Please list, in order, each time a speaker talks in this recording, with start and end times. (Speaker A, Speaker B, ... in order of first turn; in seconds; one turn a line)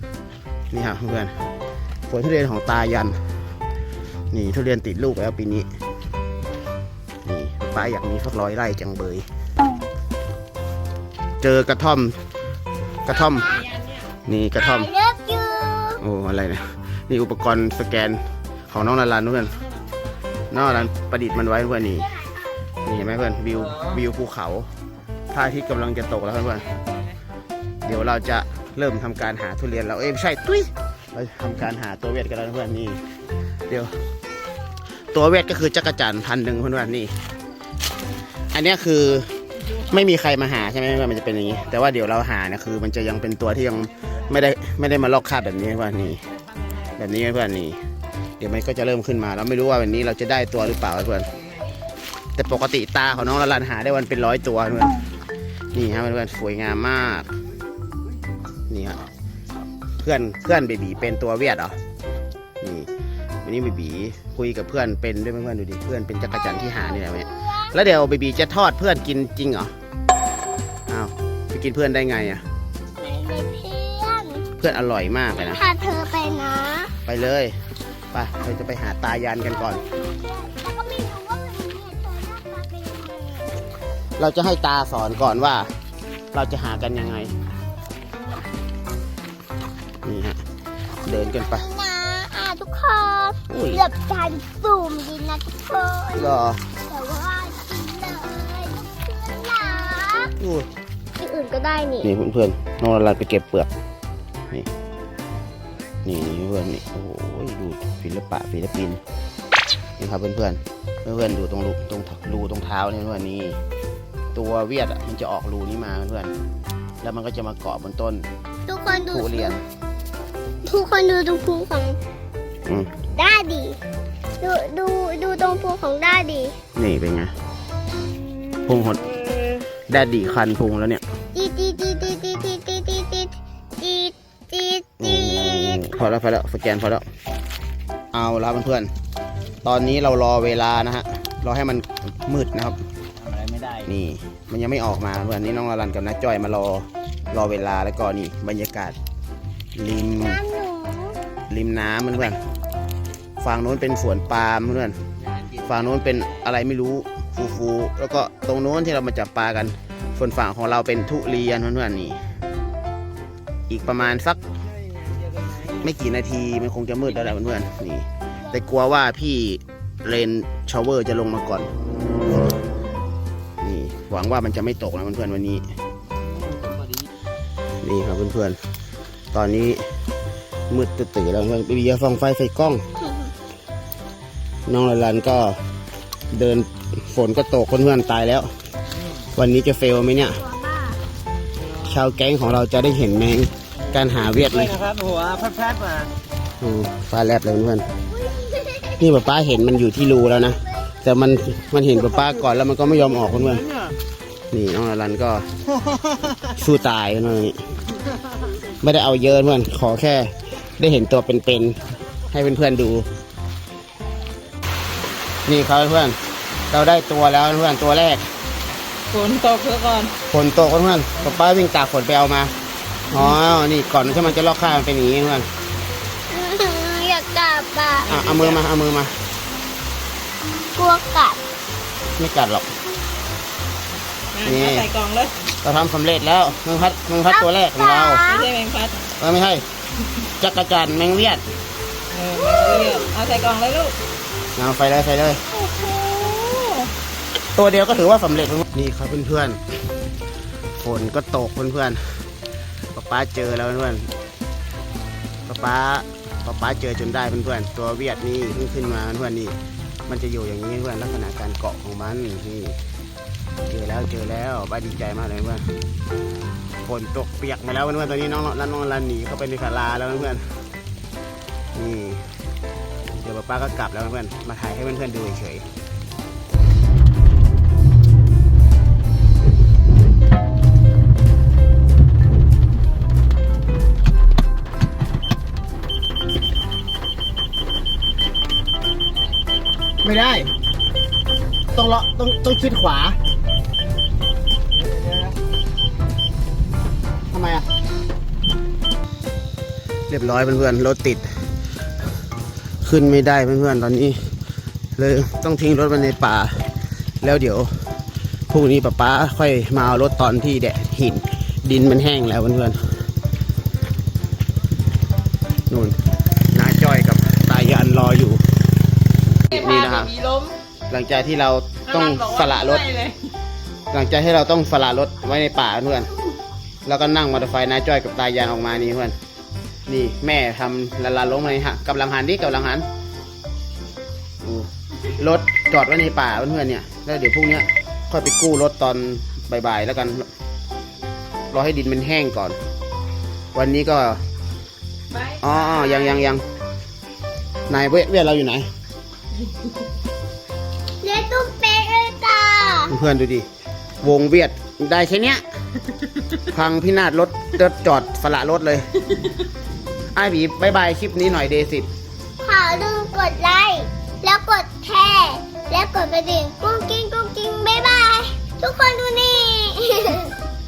Speaker A: 0.7-1.4
Speaker A: 2.1-3.4
Speaker A: 4.3-5.7
Speaker A: 7.2-9.2
Speaker A: 11.4-12.2
Speaker A: 13.0-13.6
Speaker B: 13.3-13.7
Speaker A: 14.2-14.9
Speaker B: 14.6-16.0
Speaker A: 16.0-19.6
Speaker A: 20.5-22.1
Speaker A: 22.8-24.7
Speaker A: 25.3-26.7
Speaker A: 27.8-33.0
Speaker A: 33.6-34.1
Speaker A: 35.1-37.1
Speaker A: 38.5-46.2
Speaker A: 46.8-47.8
Speaker A: 48.4-51.3
Speaker A: 52.3-55.0
Speaker A: 55.7-57.3
Speaker A: 58.7-59.0
Speaker A: 60.0-61.8
Speaker A: 62.6-62.9
Speaker A: 63.4-69.7
Speaker B: 66.4-67.8
Speaker A: 70.9-72.4
Speaker B: 73.0-74.5
Speaker A: 74.6-75.6
Speaker B: 75.3-76.9
Speaker A: 77.0-77.6
Speaker A: 78.1-79.8
Speaker B: 79.4-83.6
Speaker A: 84.2-85.7
Speaker A: 86.3-87.3
Speaker A: 90.0-90.4
Speaker A: 91.0-91.7
Speaker B: 91.4-100.3
Speaker A: 93.5-93.8
Speaker A: 96.1-96.6
Speaker A: 100.4-100.7
Speaker B: 101.2-102.1
Speaker A: 102.0-103.7
Speaker A: 106.0-109.0
Speaker A: 110.0-113.6
Speaker A: 114.3-116.3
Speaker A: 117.0-118.3
Speaker B: 118.7-119.5
Speaker A: 119.1-119.6
Speaker B: 120.6-122.0
Speaker A: 122.6-123.0
Speaker B: 123.0-123.8
Speaker B: 124.4-126.6
Speaker A: 126.7-127.3
Speaker A: 128.7-129.1
Speaker A: 129.9-131.0
Speaker B: 131.3-135.9
Speaker A: 135.0-137.1
Speaker A: 138.1-138.9
Speaker A: 139.6-142.8
Speaker A: 143.8-149.0
Speaker A: 149.7-150.4
Speaker B: 150.2-151.2
Speaker A: 151.5-152.4
Speaker A: 153.4-155.0
Speaker A: 155.5-162.3
Speaker A: 163.7-164.4
Speaker C: 164.8-165.6
Speaker A: 165.6-171.7
Speaker A: 173.6-175.7
Speaker A: 177.8-178.6
Speaker A: 179.3-179.9
Speaker A: 180.7-182.8
Speaker B: 183.0-183.3
Speaker A: 184.7-185.6
Speaker A: 186.3-188.5
Speaker A: 189.3-190.4
Speaker B: 190.3-191.0
Speaker A: 191.8-194.8
Speaker C: 194.8-196.1
Speaker A: 196.6-197.9
Speaker B: 198.2-199.0
Speaker A: 199.0-203.7
Speaker A: 204.5-205.5
Speaker A: 206.4-207.6
Speaker A: 208.7-213.1
Speaker A: 215.4-216.2
Speaker A: 216.7-218.2
Speaker D: 219.1-220.1
Speaker A: 220.3-222.5
Speaker A: 223.1-225.5
Speaker B: 226.3-228.2
Speaker D: 228.1-228.6
Speaker A: 228.1-229.1
Speaker B: 230.7-231.4
Speaker A: 232.2-232.7
Speaker D: 234.3-235.3
Speaker A: 234.4-234.8
Speaker A: 235.6-238.2
Speaker B: 237.3-238.5
Speaker D: 238.2-239.0
Speaker A: 239.2-239.7
Speaker A: 240.2-241.5
Speaker D: 242.1-244.0
Speaker B: 242.3-243.1
Speaker A: 244.5-245.4
Speaker B: 245.5-246.9
Speaker A: 247.5-249.6
Speaker A: 250.7-252.3
Speaker A: 252.9-254.1
Speaker A: 255.4-259.6
Speaker A: 260.1-262.8
Speaker A: 263.7-265.7
Speaker A: 266.8-270.6
Speaker A: 271.7-272.3
Speaker A: 273.2-275.6
Speaker A: 290.0-290.5
Speaker A: 291.7-293.2
Speaker A: 297.3-297.7
Speaker A: 300.1-301.2
Speaker A: 302.8-304.3
Speaker A: 304.9-306.6
Speaker A: 307.2-307.9
Speaker A: 308.5-313.0
Speaker A: 315.7-315.9
Speaker A: 316.5-318.4
Speaker A: 319.5-320.1
Speaker D: 319.5-320.6
Speaker A: 320.9-322.8
Speaker D: 321.9-323.2
Speaker A: 323.9-326.1
Speaker A: 326.8-329.1
Speaker A: 329.9-332.9
Speaker A: 334.4-340.3
Speaker A: 341.5-342.6
Speaker A: 343.5-344.2
Speaker D: 345.1-346.3
Speaker A: 345.4-346.4
Speaker A: 347.7-348.7
Speaker B: 351.0-352.9
Speaker A: 352.9-353.5
Speaker A: 354.0-355.4
Speaker A: 356.4-358.9
Speaker A: 360.1-361.9
Speaker B: 362.4-370.4